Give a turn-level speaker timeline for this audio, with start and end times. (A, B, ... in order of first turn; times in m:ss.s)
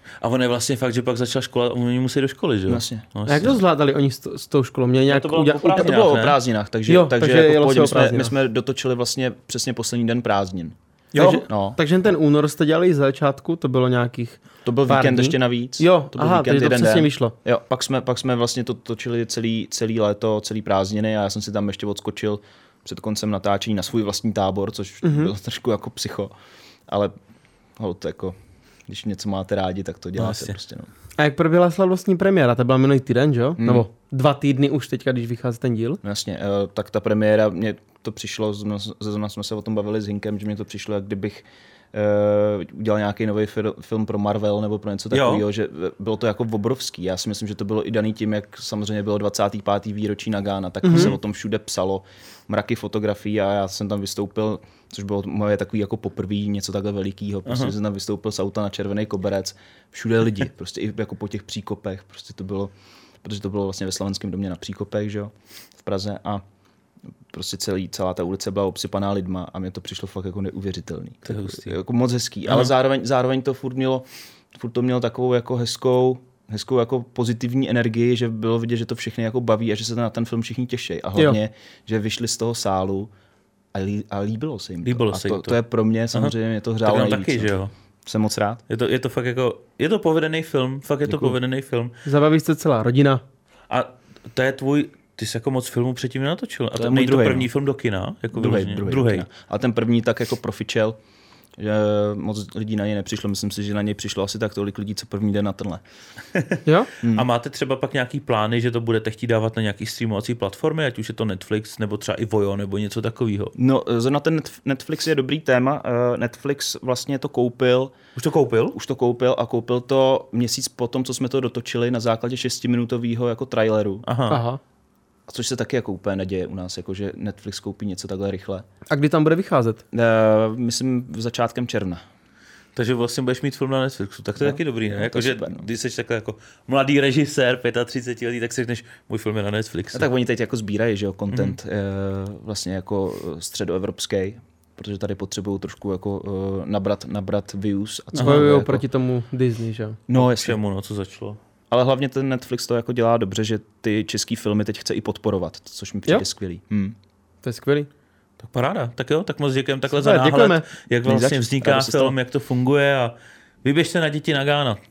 0:00.2-0:03.6 A
0:02.7-0:03.1 B
0:03.3-0:05.9 C
0:05.1-0:06.4 A
0:05.7-0:11.8 B
0:06.9-0:08.3 C
0:11.1-0:11.4 A
0:11.2-0:17.3 C
0:14.6-0:26.3 B
0:25.0-0:25.3 C
0:26.9-0:27.1 B
0:27.8-0:30.9 B
0:30.2-0:30.5 A
0:31.2-0:36.0 C
0:33.6-0:33.8 B
0:36.0-1:02.7 B
0:45.1-0:45.4 A
0:50.8-0:51.1 C
0:57.5-0:57.7 A
1:03.2-1:06.4 B
1:07.3-1:23.1 B
1:11.3-1:11.7 A
1:12.5-1:12.7 A
1:23.7-1:28.6 B
1:24.8-1:25.6 A
1:26.1-1:27.7 A
1:28.7-1:31.9 A
1:31.0-1:31.4 B
1:32.0-1:33.2 C
1:33.7-1:39.2 A
1:36.7-1:37.5 B
1:38.3-1:41.0 B
1:41.6-1:45.8 B
1:46.3-1:53.5 A
1:47.0-1:47.3 B
1:53.6-1:58.0 B
1:58.2-1:58.8 A
1:58.7-2:04.0 B
2:04.0-2:04.4 A
2:04.3-2:04.6 C
2:05.3-2:08.6 B
2:08.9-2:09.8 C
2:09.9-2:12.0 B
2:12.8-2:20.1 A
2:14.4-2:15.6 B
2:19.9-2:28.8 B
2:21.3-2:21.6 A
2:28.2-2:28.4 A
2:28.2-2:30.0 C
2:30.1-2:30.6 B
2:30.1-2:31.4 A
2:31.7-2:37.0 B
2:37.4-2:37.9 C
2:38.4-2:44.8 A
2:39.9-2:40.6 C
2:41.0-2:42.2 B